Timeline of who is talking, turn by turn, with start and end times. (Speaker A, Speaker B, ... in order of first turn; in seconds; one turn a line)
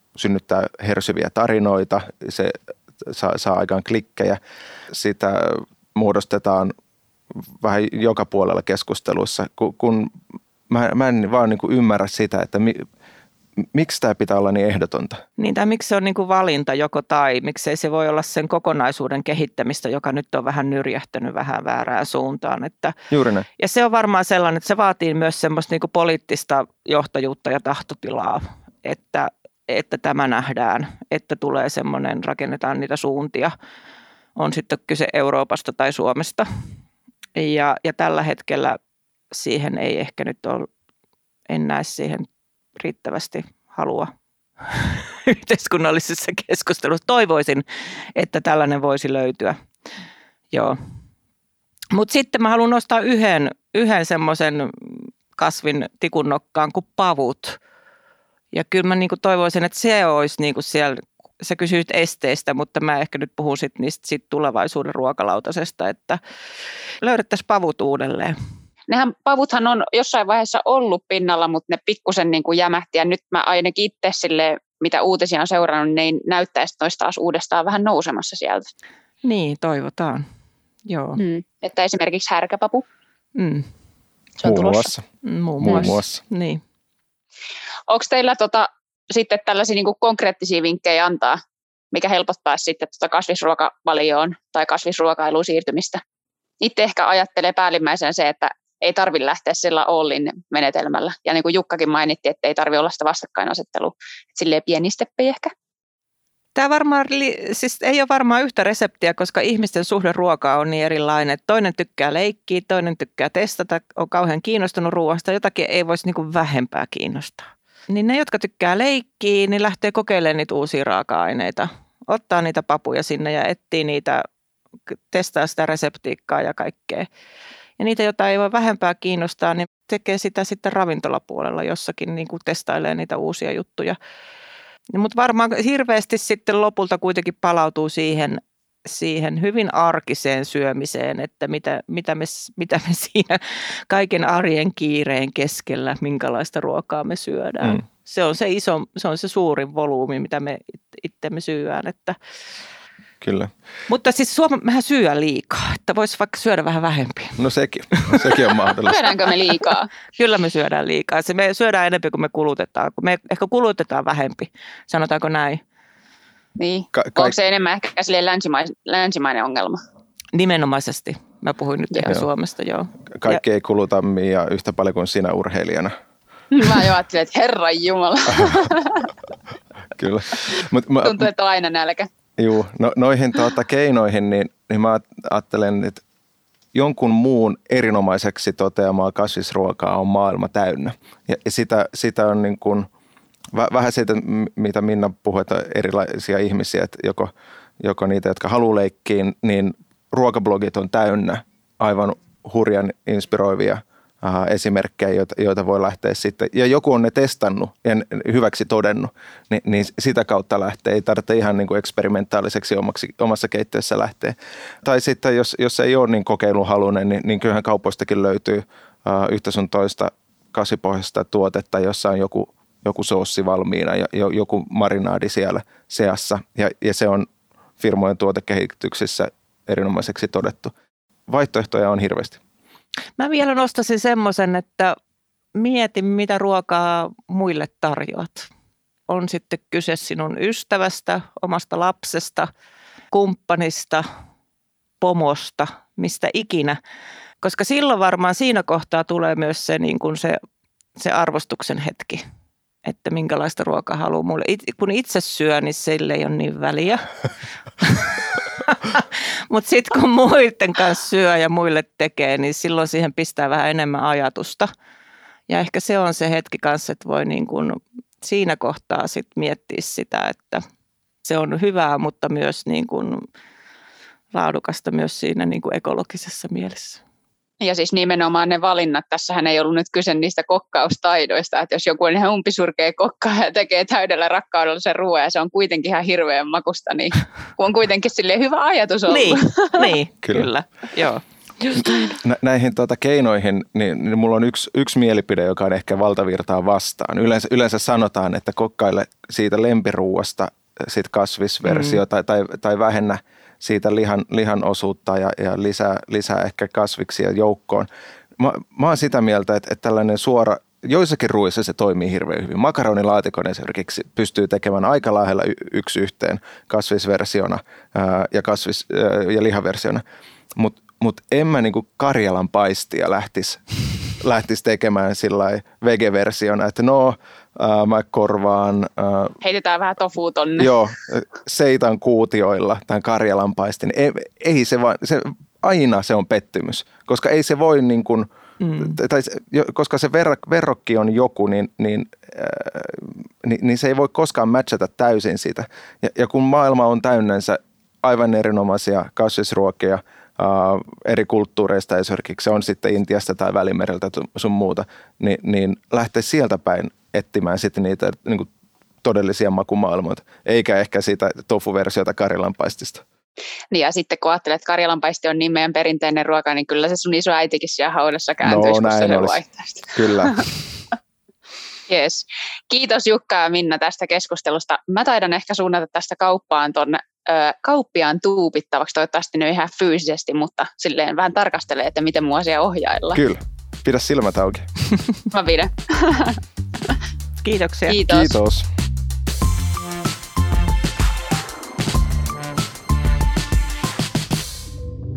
Speaker A: 0.1-6.7
Speaker A: 7.6-10.1
Speaker A: 10.7-12.9
Speaker A: 13.6-15.2
Speaker B: 15.4-22.9
Speaker A: 23.1-23.5
Speaker B: 23.6-33.5
Speaker B: 34.4-36.5
Speaker B: 37.4-38.8
Speaker B: 39.3-40.7
Speaker B: 41.5-44.1
Speaker B: 44.6-47.6
Speaker B: 48.2-49.6
Speaker B: 50.5-50.8
Speaker B: 51.9-57.6
Speaker B: 58.5-66.2
Speaker B: 67.0-68.3
Speaker C: 68.9-78.7
Speaker B: 79.2-80.2
Speaker B: 80.9-81.2
Speaker C: 81.2-82.8
Speaker B: 83.4-83.7
Speaker C: 84.4-84.9
Speaker A: 84.4-85.0
Speaker B: 85.2-86.6
Speaker A: 85.6-86.2
Speaker C: 87.9-91.4
Speaker C: 91.9-96.0
Speaker C: 96.6-105.5
Speaker B: 106.6-124.2
Speaker B: 125.1-127.1
Speaker B: 127.8-134.0
Speaker B: 134.9-152.2
Speaker A: 153.2-153.5
Speaker B: 153.9-157.4
Speaker A: 157.4-159.0
Speaker B: 158.0-158.3
Speaker C: 158.8-159.9
Speaker B: 160.2-165.6
Speaker C: 166.6-169.8
Speaker A: 166.9-167.3
Speaker B: 170.3-173.4
Speaker A: 173.2-175.9
Speaker C: 176.5-179.1
Speaker A: 178.3-178.6
Speaker A: 180.0-181.3
Speaker C: 181.0-182.1
Speaker A: 182.4-186.0
Speaker A: 186.7-192.9
Speaker A: 193.5-227.3
Speaker A: 227.8-230.7
Speaker A: 231.3-232.4
Speaker B: 233.2-235.0
Speaker B: 235.6-238.5
Speaker B: 239.1-242.5
Speaker B: 243.1-244.1
Speaker B: 245.0-246.8
Speaker B: 247.4-250.4
Speaker B: 251.0-252.2
Speaker B: 252.8-257.1
Speaker B: 257.8-264.7
Speaker B: 265.5-270.6
Speaker B: 271.2-273.2
Speaker B: 274.3-277.0
Speaker C: 277.6-290.0
Speaker B: 289.1-292.1
Speaker A: 292.1-320.0
Speaker B: 301.6-302.0
Speaker A: 320.6-323.6
Speaker A: 324.2-329.4
Speaker C: 329.4-330.7
Speaker A: 330.6-338.3
Speaker B: 338.6-339.0
Speaker A: 338.8-358.5
Speaker A: 359.0-363.0
Speaker C: 363.7-370.4
Speaker A: 368.4-369.4
Speaker A: 369.9-370.5
Speaker C: 371.9-383.2
Speaker A: 383.1-384.7
Speaker C: 385.3-386.4
Speaker B: 387.4-388.0
Speaker C: 387.9-388.3
Speaker A: 388.1-388.7